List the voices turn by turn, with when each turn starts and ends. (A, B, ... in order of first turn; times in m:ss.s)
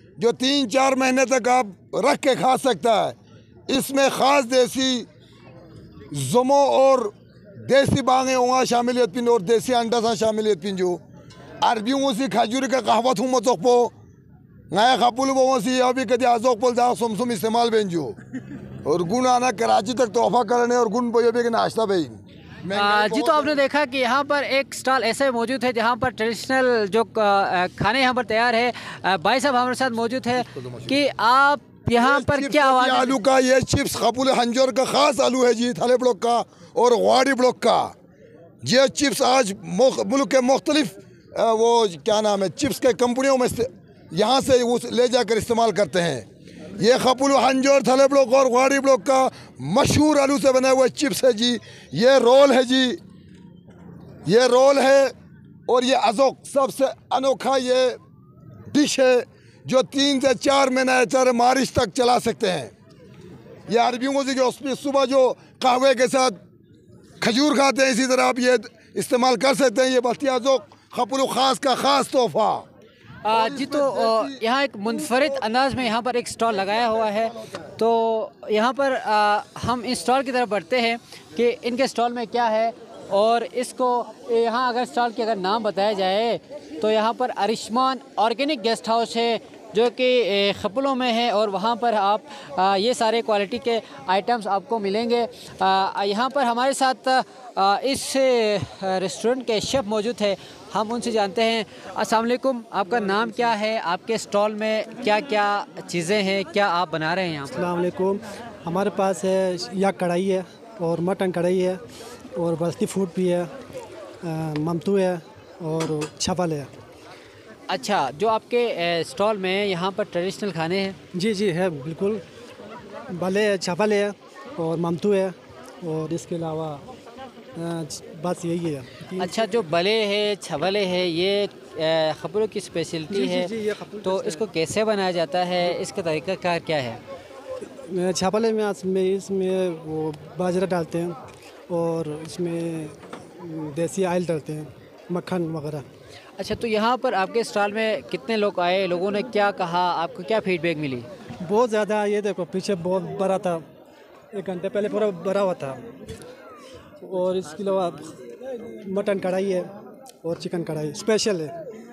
0:00.2-0:03.2 A
0:03.7-0:05.1 A
0:06.1-0:11.0 A
0:11.6-0:13.9 A
0:14.7-0:18.2 A
0:18.8-0:23.6 A
0:22.7-0:33.2 B
0:32.0-0:37.9 A
0:38.6-0:46.2 A
0:46.8-0:53.0 A
0:54.2-0:55.1 A
0:55.7-0:58.0 A
0:58.7-1:02.7 A
1:03.7-1:06.4 A
1:07.2-1:12.6 A
1:13.2-1:47.6 B
1:13.3-1:14.4 A
1:15.0-1:15.4 A
1:47.5-1:51.8 C
1:52.4-1:53.5 C
1:54.2-1:56.7 C
1:57.7-2:01.0 B
2:01.1-2:02.2 C
2:03.1-2:06.8 C
2:07.6-2:09.5 C
2:09.2-2:13.5 B
2:13.1-2:14.5 C
2:14.0-2:17.0 B
2:17.8-2:21.1 C
2:21.7-2:25.8 C
2:26.4-2:31.1 B
2:31.4-2:33.6 C
2:34.3-2:35.8 C
2:37.0-2:38.2 C
2:38.8-2:39.7 C
2:40.2-2:41.5 C